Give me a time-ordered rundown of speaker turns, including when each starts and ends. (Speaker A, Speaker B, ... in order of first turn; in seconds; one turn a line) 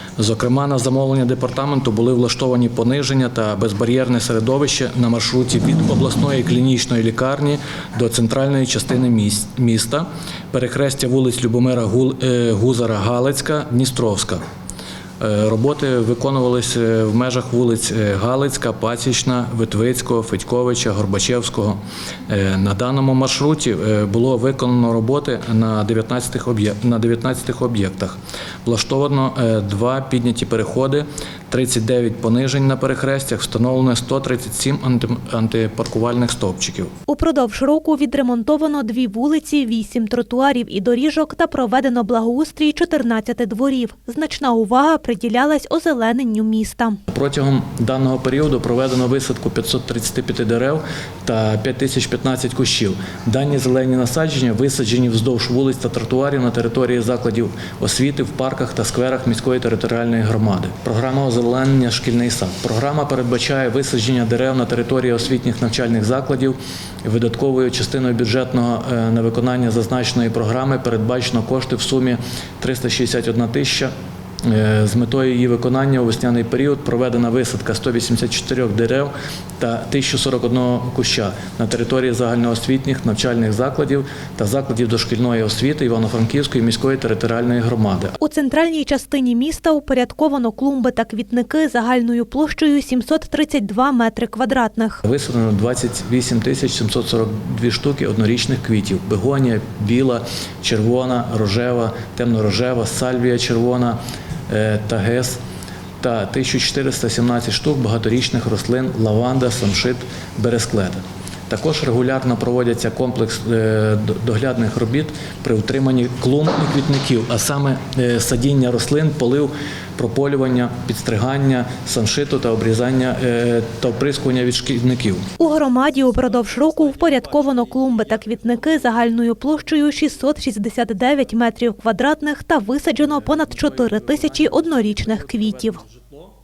Speaker A: 0.2-14.4
Speaker A: 15.2-36.9
Speaker B: 37.1-47.0
Speaker A: 47.1-73.9
Speaker A: 74.4-88.2
Speaker B: 88.2-95.0
Speaker A: 95.0-104.0
Speaker A: 104.5-105.4
Speaker A: 106.0-125.3
Speaker B: 125.4-135.8